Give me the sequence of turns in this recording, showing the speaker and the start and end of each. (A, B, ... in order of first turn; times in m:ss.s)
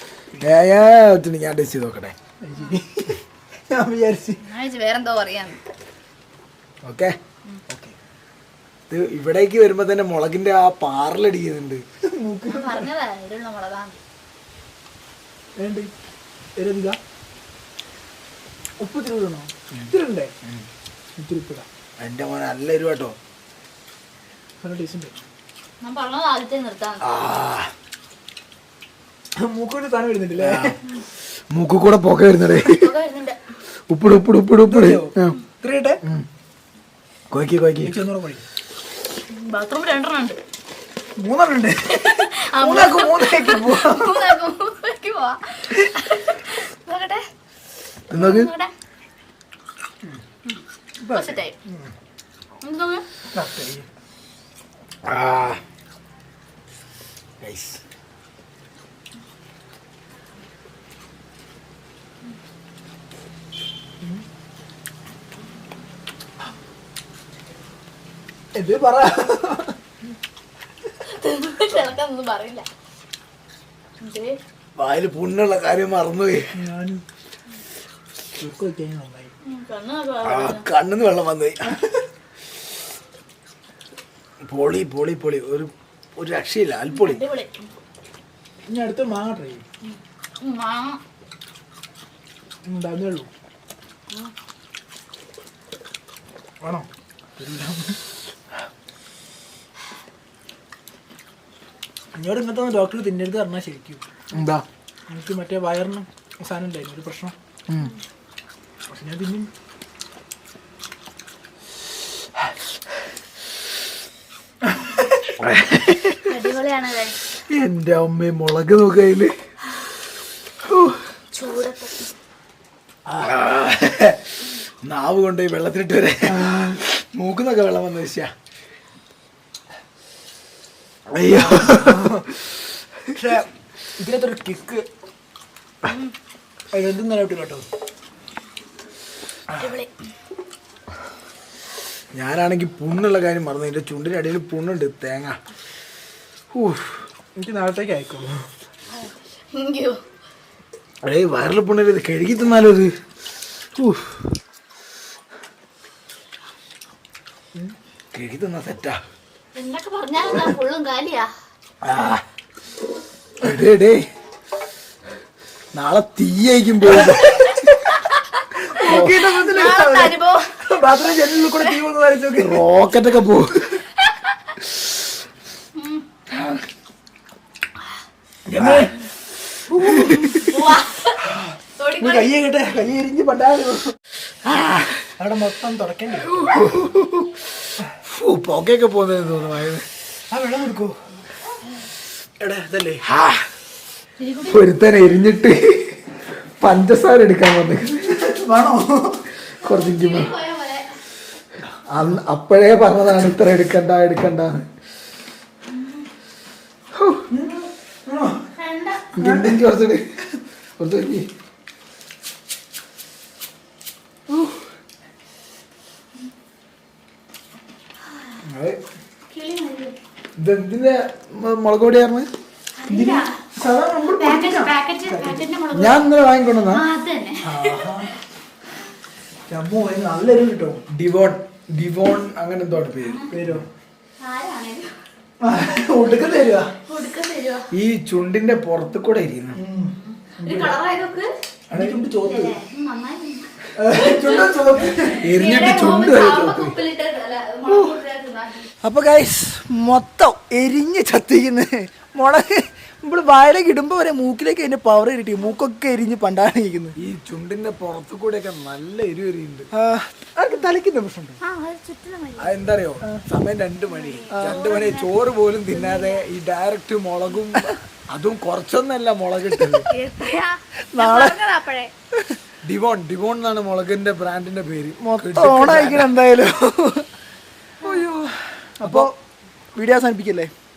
0:00.4-0:02.2 A
0:02.4-0:04.4 B
0:04.4-0:05.6 C
0:06.8-0:07.2 A
0:07.7-0:08.0 B
0:08.9-0:11.8 A
0:12.0-0:12.9 B
0:12.5-0:14.0 C
0:15.6-0:15.9 B
0:16.6-0:17.0 B
0:18.8-0:20.3 B
0:21.2-0:21.7 B
0:22.0-0:23.2 A
0:24.6-0:25.2 B
0:25.8-0:27.0 C
0:27.0-0:27.7 A
0:29.4-0:30.8 B
0:30.4-0:30.8 A
0:31.5-0:32.9 A
0:32.6-0:33.4 C
0:33.9-0:35.4 A
0:34.6-0:36.0 B
0:37.3-0:38.0 A
0:37.8-0:38.4 B
0:39.3-0:40.4 C
0:41.2-0:44.4 B
0:41.9-0:47.2 C
0:48.1-0:48.5 A
0:48.1-0:48.7 C
0:50.5-0:51.6 C
0:51.0-0:51.9 B
0:52.6-0:53.1 C
0:53.3-0:53.9 B
0:55.0-0:55.6 A
0:57.4-0:57.8 A
1:08.6-1:09.8 B
1:11.0-1:12.7 C
1:14.0-1:14.4 C
1:14.8-1:16.5 A
1:16.5-1:17.0 B
1:18.4-1:19.3 B
1:19.4-1:20.7 C
1:20.2-1:21.8 A
1:24.4-1:27.2 A
1:26.9-1:27.7 C
1:28.6-1:29.6 B
1:29.8-1:31.0 C
1:32.6-1:33.3 B
1:36.6-1:38.0 B
1:42.2-1:44.1 B
1:44.3-1:44.6 A
1:45.1-1:47.4 B
1:48.9-1:49.5 B
1:55.4-1:56.2 A
1:56.2-1:57.2 C
1:57.5-1:59.3 A
2:00.6-2:01.0 A
2:01.3-2:02.1 C
2:03.1-2:04.2 A
2:04.8-2:08.3 A
2:11.1-2:12.1 A
2:11.3-2:12.3 B
2:13.2-2:14.9 B
2:15.8-2:16.1 C
2:16.7-2:17.6 B
2:19.5-2:19.9 C
2:22.1-2:25.4 A
2:26.5-2:27.0 A
2:27.4-2:28.5 B
2:28.9-2:30.0 C
2:31.0-2:32.9 A
2:33.8-2:34.3 A
2:38.1-2:39.0 A
2:39.6-2:41.3 C
2:41.8-2:42.2 A
2:43.4-2:44.0 A
2:45.7-2:47.4 A
2:47.3-2:50.5 C
2:48.7-2:52.6 B
2:48.8-2:49.4 A
2:51.5-2:51.7 C
2:52.4-2:53.8 A
2:55.8-2:56.0 C
2:56.3-2:56.6 A
2:58.5-2:59.0 B
2:58.6-2:58.9 A
2:59.7-3:00.5 B
2:59.8-3:00.4 A
3:00.3-3:02.3 C
3:01.3-3:04.0 B
3:05.1-3:06.4 B
3:06.4-3:07.3 A
3:08.0-3:09.9 A
3:10.3-3:11.0 B
3:12.4-3:13.1 B
3:14.2-3:14.6 C
3:14.4-3:18.1 A
3:18.1-3:19.2 B
3:19.6-3:20.9 C
3:19.6-3:20.4 A
3:21.9-3:24.7 A
3:27.0-3:27.3 A
3:27.3-3:28.5 B
3:28.5-3:29.1 C
3:29.2-3:29.6 B
3:29.2-3:30.0 A
3:30.8-3:31.3 A
3:38.5-3:38.8 A
3:39.3-3:40.0 C
3:40.4-3:42.3 A
3:42.8-3:43.4 C
3:42.9-3:45.5 B
3:44.2-3:46.1 C
3:45.7-3:46.9 A
3:46.7-3:48.0 C
3:47.4-3:48.2 B
3:49.5-3:50.8 B
3:50.9-3:53.6 A
3:53.0-3:53.3 C
3:53.3-3:53.7 B
3:54.2-3:55.0 C
3:55.4-3:56.7 B
3:56.9-3:57.7 C
3:57.7-3:59.6 A
3:59.5-4:00.8 B
4:00.0-4:01.3 C
4:01.7-4:02.0 A
4:01.7-4:02.6 B
4:02.2-4:08.7 C
4:03.8-4:05.4 B
4:05.2-4:06.8 A
4:08.8-4:17.0 B
4:17.0-4:19.7 A
4:19.7-4:21.4 B
4:21.4-4:22.7 C
4:22.4-4:29.9 A
4:23.9-4:26.2 C
4:24.3-4:24.6 B
4:29.9-4:31.9 C
4:30.9-4:31.4 B
4:32.6-4:36.2 A
4:35.0-4:37.1 B
4:37.8-4:39.1 A
4:37.8-4:38.1 C
4:38.8-4:39.1 B
4:39.8-4:40.5 B